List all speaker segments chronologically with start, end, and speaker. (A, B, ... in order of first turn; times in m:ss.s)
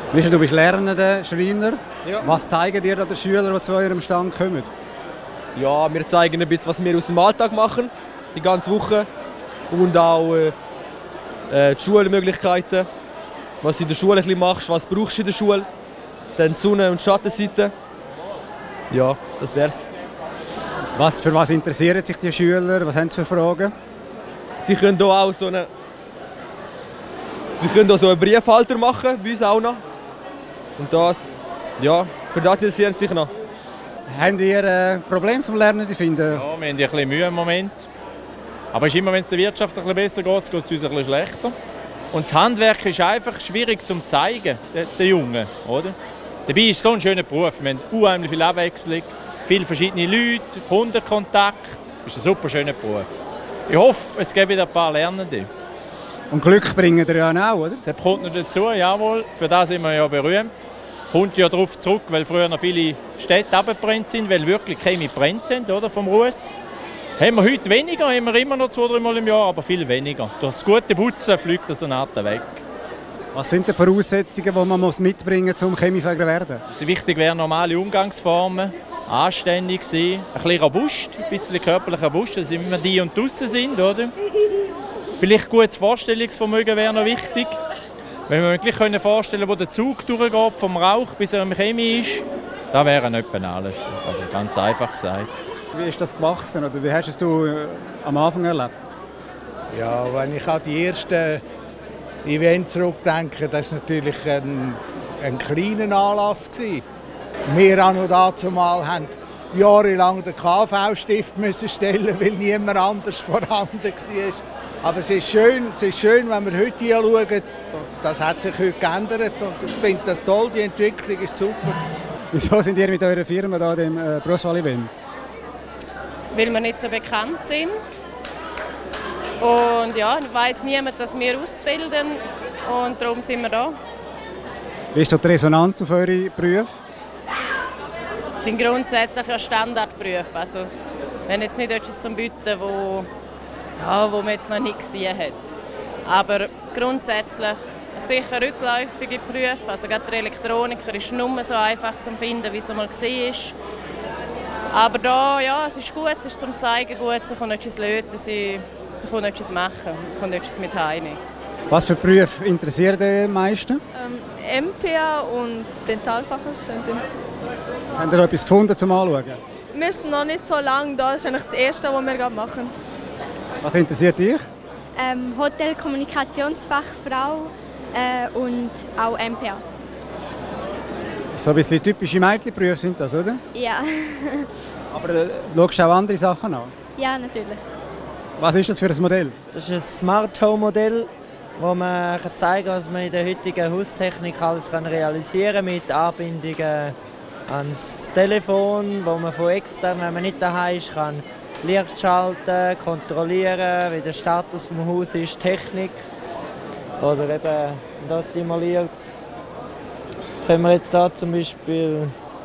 0:00.1-0:04.7 A
0:05.6-0:09.1 B
0:09.7-0:10.5 B
0:11.5-0:12.9 B
0:13.6-0:15.7 B
0:16.4-0:17.7 B
0:18.9-0:19.8 B
0:21.0-0:23.7 A
0:24.6-0:25.7 B
0:27.6-0:29.8 B
0:30.8-0:33.3 B
0:34.1-0:36.4 A
0:36.3-0:37.9 C
0:38.7-0:41.6 C
0:42.1-0:46.0 C
0:46.5-0:53.1 C
0:53.7-0:55.5 C
0:56.3-0:57.8 A
0:57.8-1:00.6 C
1:01.1-1:06.6 C
1:07.2-1:12.6 C
1:13.3-1:16.6 A
1:16.7-1:24.1 C
1:25.2-1:27.6 C
1:28.3-1:35.3 C
1:35.7-1:38.7 A
1:39.7-1:41.4 D
1:42.2-1:46.8 D
1:47.5-2:01.8 D
2:02.3-2:05.0 A
2:06.3-2:07.7 E
2:09.4-2:13.8 E
2:14.9-2:16.8 A
2:18.4-2:20.7 E
2:21.3-2:23.1 E
2:23.8-2:25.5 E
2:26.0-2:33.5 E
2:34.7-2:41.2 E
2:41.7-2:43.8 A
2:44.0-2:47.0 F
2:48.0-2:49.4 A
2:49.7-2:52.7 F
2:53.6-2:54.4 A
2:55.0-2:59.6 G
3:01.4-3:03.4 A
3:03.5-3:04.5 G
3:04.9-3:06.7 A
3:07.0-3:07.6 G
3:08.4-3:09.3 A
3:09.5-3:16.9 H
3:17.5-3:26.0 H
3:27.0-3:29.1 H
3:30.4-3:32.1 H